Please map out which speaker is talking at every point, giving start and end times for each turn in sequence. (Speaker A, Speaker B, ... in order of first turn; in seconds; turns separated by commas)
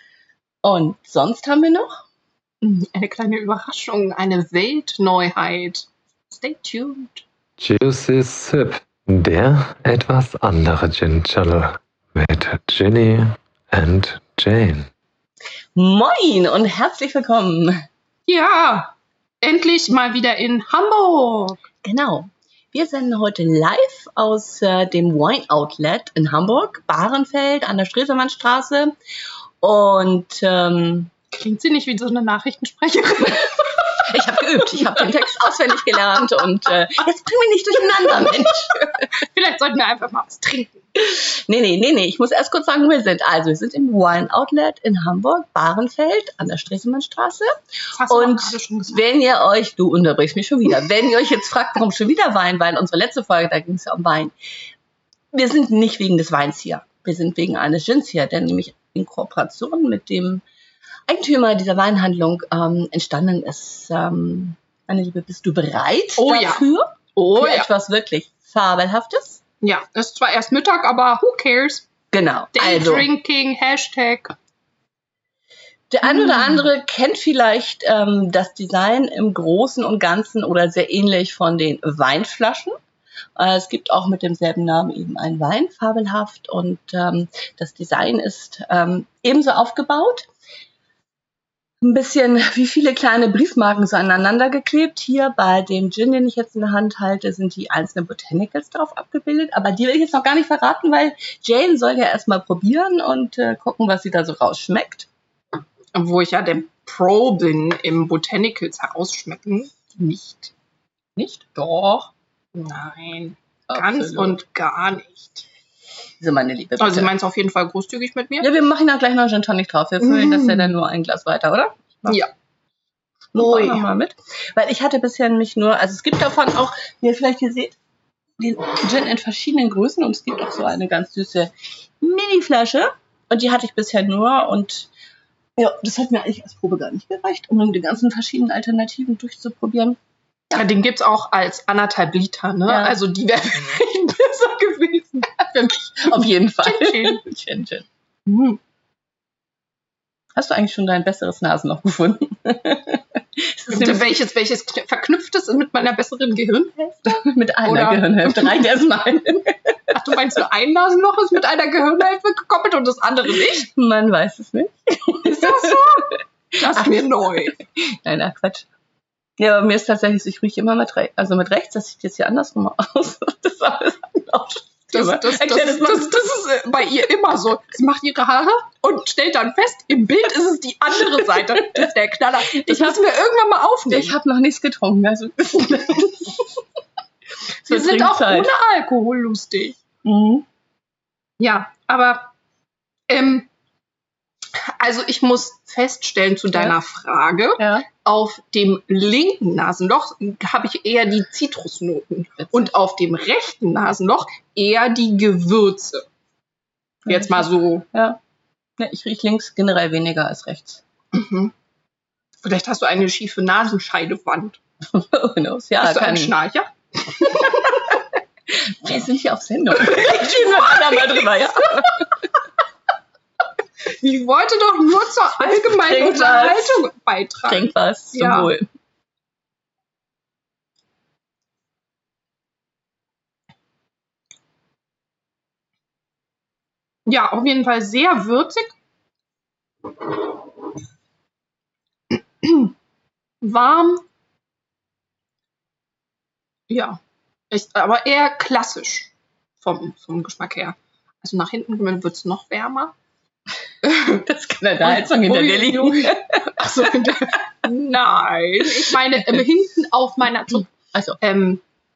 Speaker A: 0.6-1.9, Speaker B: 2.6-7.2, Speaker C: 7.6-14.9, Speaker A: 15.8-17.9, Speaker B: 18.3-21.7, Speaker A: 21.8-28.9, Speaker A: 29.6-31.1, Speaker B: 31.3-36.0, Speaker A: 33.4-39.1, Speaker B: 38.2-38.5, Speaker B: 39.2-40.8, Speaker A: 41.0-47.5, Speaker B: 47.9-49.0, Speaker A: 48.1-54.3, Speaker A: 55.3-60.4, Speaker A: 61.1-69.4, Speaker B: 66.2-67.7, Speaker B: 69.6-71.9, Speaker A: 72.1-73.1, Speaker B: 72.5-74.3, Speaker A: 75.9-82.8, Speaker B: 76.0-76.6, Speaker A: 83.4-90.3, Speaker A: 91.8-105.1, Speaker B: 105.9-110.5, Speaker A: 111.2-111.6, Speaker B: 111.5-115.4, Speaker A: 113.7-114.4, Speaker A: 116.2-117.1, Speaker B: 116.8-118.5, Speaker A: 118.4-122.2, Speaker B: 120.0-120.8, Speaker A: 123.3-127.8, Speaker B: 123.3-123.9, Speaker A: 128.4-134.9, Speaker A: 135.6-140.0, Speaker B: 140.5-147.2, Speaker A: 142.7-143.0, Speaker A: 146.0-147.9, Speaker B: 148.3-148.6, Speaker A: 150.4-154.1, Speaker B: 153.7-157.1, Speaker A: 157.1-160.0, Speaker B: 157.7-158.6, Speaker B: 159.9-163.7, Speaker A: 163.6-168.7, Speaker B: 165.2-167.6, Speaker A: 169.4-176.3, Speaker B: 174.9-184.2, Speaker A: 182.5-183.0, Speaker A: 183.9-186.5, Speaker A: 187.7-188.5, Speaker B: 187.7-189.8, Speaker A: 190.1-190.4, Speaker B: 191.4-192.3, Speaker B: 193.1-193.5, Speaker B: 194.5-206.1, Speaker A: 197.6-197.9, Speaker A: 202.4-202.7, Speaker B: 207.1-207.9, Speaker A: 207.1-208.2, Speaker A: 208.8-210.8, Speaker B: 211.1-211.5, Speaker B: 212.4-214.6, Speaker A: 214.9-216.3, Speaker B: 215.8-218.0, Speaker A: 218.5-222.3, Speaker B: 219.7-221.9, Speaker B: 223.9-228.5, Speaker A: 225.4-226.9, Speaker A: 227.5-228.7, Speaker B: 237.1-238.8, Speaker B: 242.1-242.7, Speaker B: 243.4-244.1, Speaker B: 246.7-247.0, Speaker B: 247.5-252.9, Speaker B: 253.8-254.2, Speaker A: 254.2-257.1, Speaker B: 254.8-260.7, Speaker A: 260.9-261.2, Speaker B: 261.2-261.6